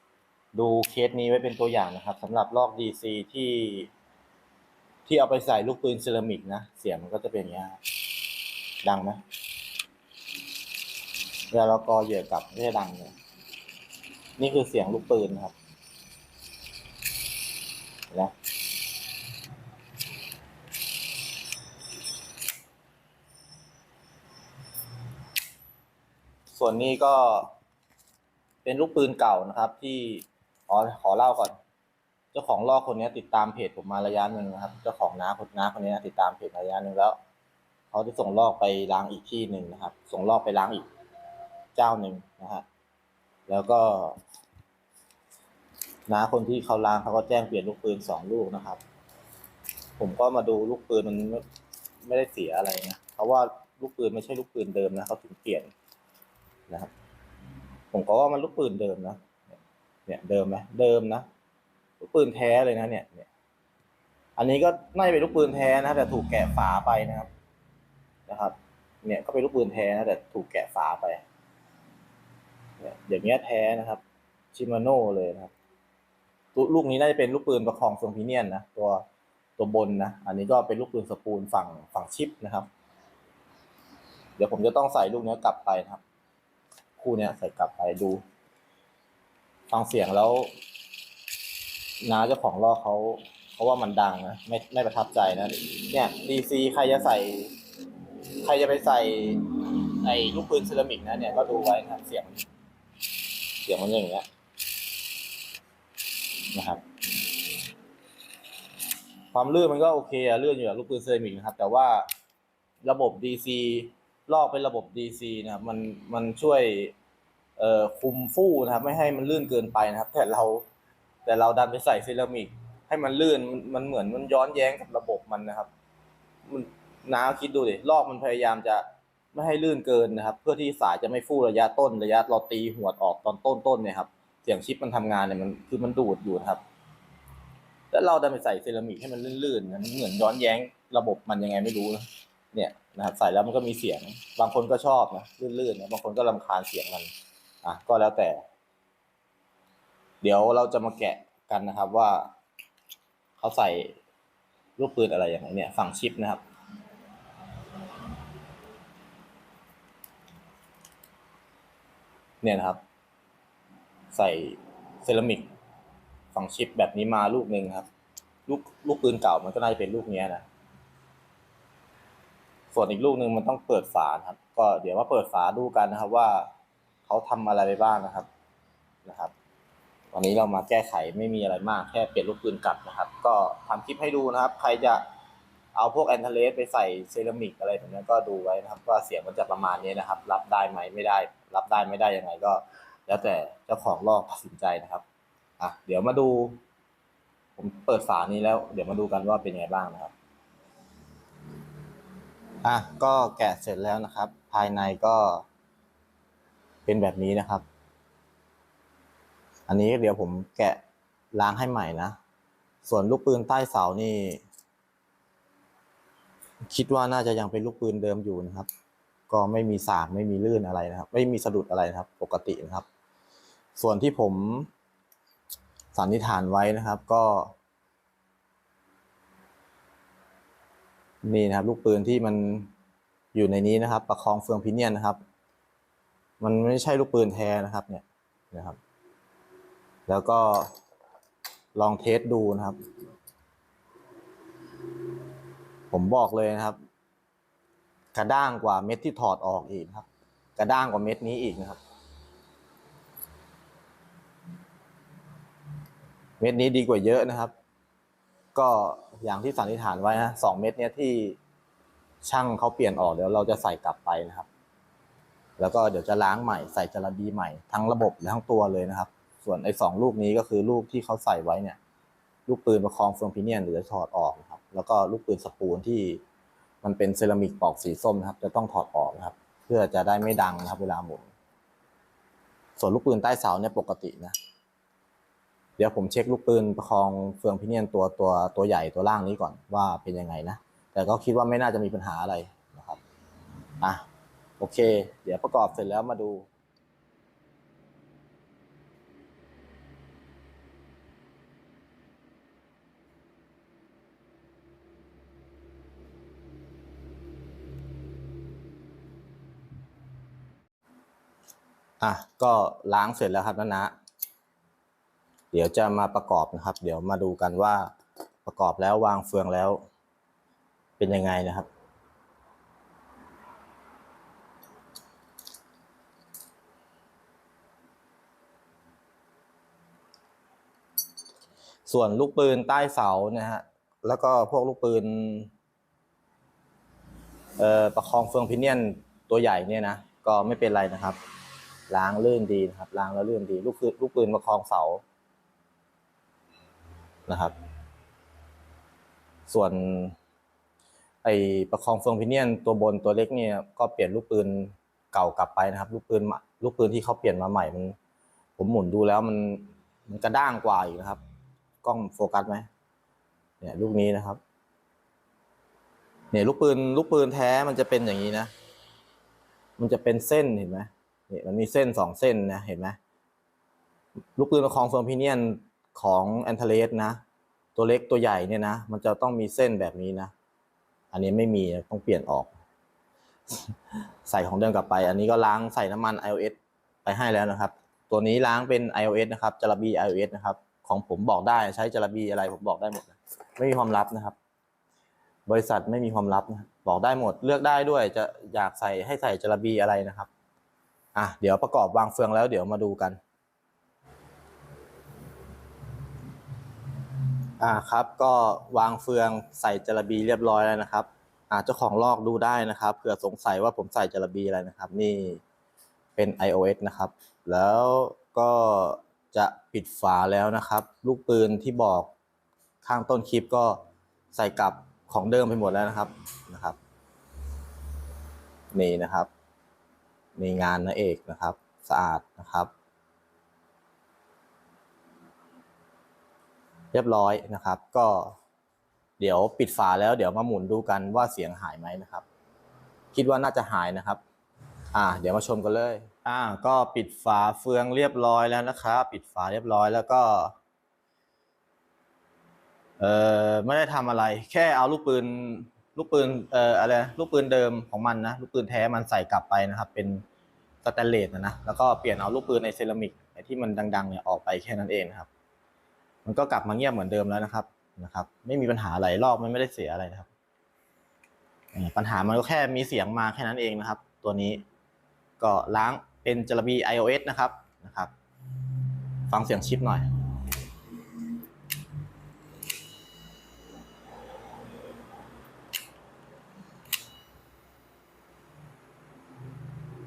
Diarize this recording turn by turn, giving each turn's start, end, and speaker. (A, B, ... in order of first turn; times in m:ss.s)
0:00.5-0:03.9 A
0:05.0-0:07.8 A
0:08.8-0:09.2 A
0:11.5-0:13.1 A
0:14.4-0:15.5 A
0:26.5-0:27.5 A
0:28.6-0:31.6 A
0:32.3-0:37.2 A
0:37.9-0:40.8 A
0:41.7-0:42.6 A
0:43.5-0:44.2 A
0:46.1-0:48.8 A
0:50.0-0:51.4 A
0:52.0-0:55.7 A
0:57.9-0:59.2 A
1:00.1-1:01.2 A
1:02.0-1:03.3 A
1:04.4-1:07.3 A
1:08.3-1:11.2 A
1:12.8-1:14.0 A
1:14.5-1:15.5 A
1:16.5-1:19.0 A
1:19.6-1:22.7 A
1:24.4-1:26.0 A
1:27.0-1:28.2 A
1:29.7-1:30.5 A
1:32.0-1:37.5 A
1:38.4-1:42.4 A
1:43.6-1:44.2 A
1:46.5-1:46.8 A
1:49.3-1:52.0 A
1:52.8-1:56.9 A
1:57.6-2:00.6 A
2:01.2-2:05.7 A
2:06.5-2:16.6 A
2:17.9-2:27.1 A
2:27.6-2:28.4 A
2:30.2-2:32.3 A
2:33.4-2:33.9 A
2:34.8-2:36.4 A
2:42.4-2:42.8 A
2:44.1-2:45.5 A
2:46.3-2:47.9 A
2:48.5-2:50.4 A
2:52.7-2:56.5 A
2:57.0-2:58.3 A
2:59.0-2:59.3 A
3:00.1-3:05.0 A
3:05.7-3:15.0 A
3:15.6-3:16.6 A
3:17.6-3:20.1 A
3:22.6-3:25.4 A
3:26.8-3:27.6 A
3:29.7-3:30.8 A
3:31.3-3:32.2 A
3:32.8-3:34.4 A
3:36.7-3:38.7 A
3:39.3-3:42.8 A
3:43.8-3:44.7 A
3:45.9-3:47.5 A
3:51.2-3:52.7 A
3:53.3-3:55.2 A
3:56.4-3:58.8 A
4:00.1-4:00.7 A
4:01.8-4:02.8 A
4:05.9-4:06.8 A
4:08.1-4:11.8 A
4:16.4-4:17.5 A
4:18.5-4:21.4 A
4:22.2-4:24.5 A
4:25.6-4:31.8 A
4:32.5-4:36.2 A
4:36.8-4:41.3 A
4:42.8-4:44.3 A
4:45.8-4:53.0 A
4:54.6-4:56.5 A
5:12.0-5:13.9 A
5:15.5-5:17.9 A
5:18.4-5:19.8 A
5:21.0-5:21.7 A
5:31.9-5:35.5 A
5:37.6-5:41.2 A
5:41.9-5:45.0 A
5:47.3-5:47.5 A
5:49.5-5:50.2 A
5:51.2-5:58.0 A
5:58.6-6:01.2 A
6:01.8-6:02.7 A
6:03.6-6:04.4 A
6:06.3-6:08.5 A
6:09.8-6:13.0 A
6:14.4-6:17.2 A
6:17.8-6:20.3 A
6:21.1-6:22.5 A
6:24.2-6:34.3 A
6:35.5-6:40.3 A
6:41.1-6:43.2 A
6:47.6-6:55.4 A
6:56.2-7:02.1 A
7:02.8-7:06.8 A
7:08.7-7:09.3 A
7:10.4-7:12.7 A
7:16.9-7:18.4 A
7:19.2-7:22.2 A
7:23.1-7:24.2 A
7:24.9-7:30.5 A
7:33.0-7:40.2 A
7:40.8-7:45.3 A
7:46.2-7:50.3 A
7:51.7-7:54.6 A
7:55.4-7:58.1 A
7:59.3-8:00.1 A